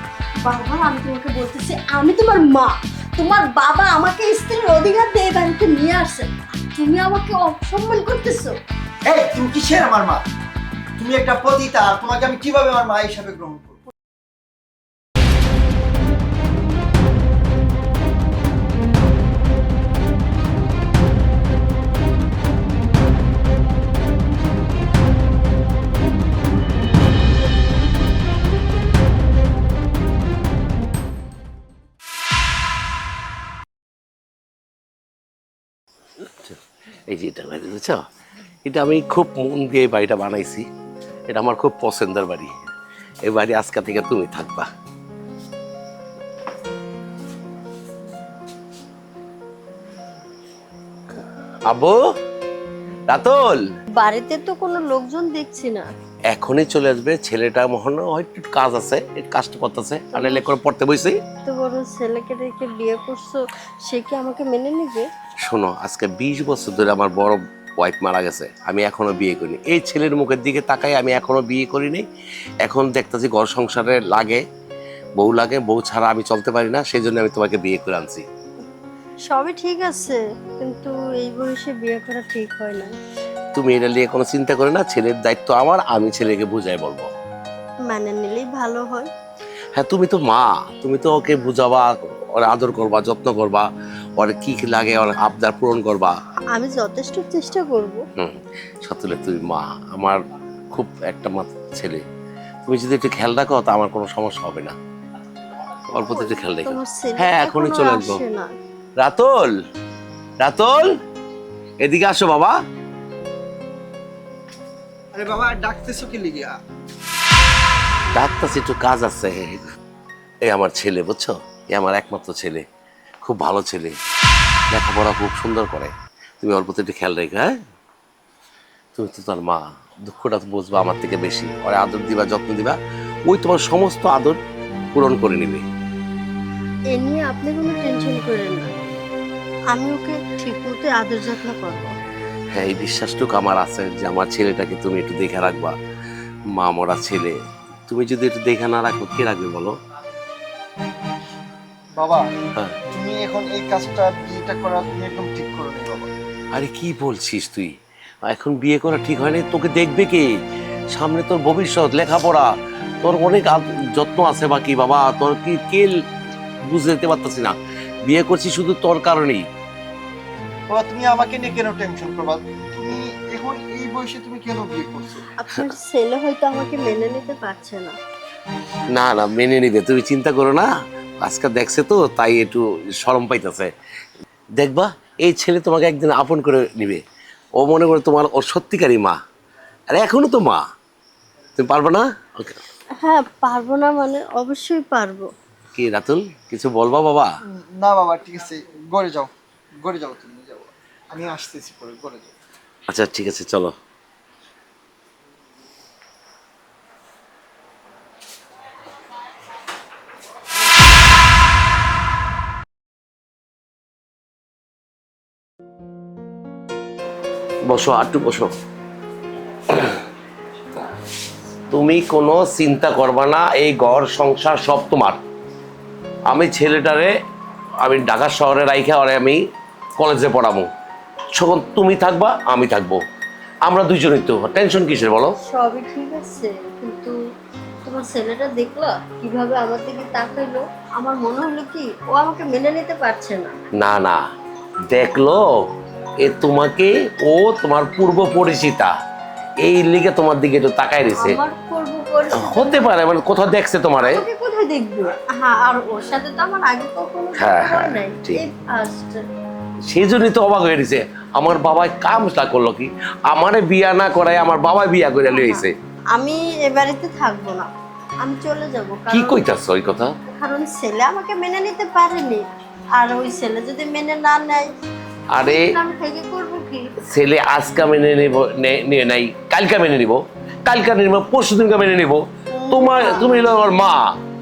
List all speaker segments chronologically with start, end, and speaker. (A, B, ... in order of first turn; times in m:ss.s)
0:00.4-0:08.6 A
0:09.1-0:10.3 B
0:11.0-0:13.8 B
0:36.2-0:38.0 C
0:38.6-0:40.7 C
0:41.3-0:42.6 C
0:43.2-0:44.7 C
0:51.7-0:52.0 C
0:53.1-0:53.7 C
0:54.0-0:55.9 A
0:56.3-1:01.2 C
1:00.1-1:00.5 A
1:01.4-1:05.1 A
1:05.5-1:12.1 C
1:12.6-1:14.4 C
1:15.2-1:18.3 C
1:19.3-1:23.0 A
1:23.5-1:27.1 C
1:27.8-1:29.1 A
1:29.8-1:36.2 C
1:36.5-1:38.0 A
1:38.2-1:40.2 C
1:40.7-1:42.0 C
1:42.6-1:44.8 C
1:45.9-1:48.2 C
1:46.1-1:48.5 A
1:49.0-1:49.6 C
1:50.4-1:51.0 C
1:51.8-1:52.6 C
1:55.1-1:56.6 B
1:58.2-1:59.6 C
2:00.5-2:02.7 C
2:03.2-2:04.0 C
2:04.7-2:07.6 C
2:09.0-2:14.4 C
2:14.9-2:15.6 C
2:16.9-2:18.7 A
2:19.7-2:21.9 A
2:22.5-2:25.8 C
2:26.5-2:29.8 C
2:32.0-2:32.3 B
2:32.9-2:36.1 B
2:36.5-2:37.7 C
2:38.2-2:40.4 C
2:40.9-2:42.5 C
2:43.0-2:46.0 C
2:46.6-2:49.5 C
2:50.7-2:55.3 B
2:55.4-2:58.0 A
2:58.9-3:03.7 C
3:04.6-3:07.0 C
3:07.6-3:09.2 C
3:09.9-3:10.6 C
3:11.6-3:12.6 C
3:13.0-3:15.3 A
3:15.8-3:17.3 C
3:17.5-3:22.4 B
3:22.9-3:23.8 C
3:37.7-3:38.5 C
3:39.7-3:40.0 C
3:41.7-3:45.2 C
3:46.3-3:47.1 C
3:47.8-3:49.4 C
3:50.0-3:50.7 C
3:51.4-3:53.0 C
3:53.7-3:55.4 C
3:55.4-3:57.2 A
3:57.8-4:03.5 A
4:03.8-4:04.2 C
4:04.9-4:05.6 C
4:06.2-4:08.9 C
4:09.6-4:11.4 C
4:11.2-4:12.9 A
4:12.4-4:14.2 C
4:14.0-4:19.2 A
4:17.4-4:18.4 C
4:19.9-4:25.7 C
4:25.3-4:27.7 A
4:28.2-4:29.4 A
4:29.1-4:30.2 C
4:30.3-4:32.5 A
4:33.0-4:34.7 A
4:35.3-4:35.7 C
4:35.4-4:37.0 A
4:37.0-4:44.2 C
4:42.5-4:43.4 A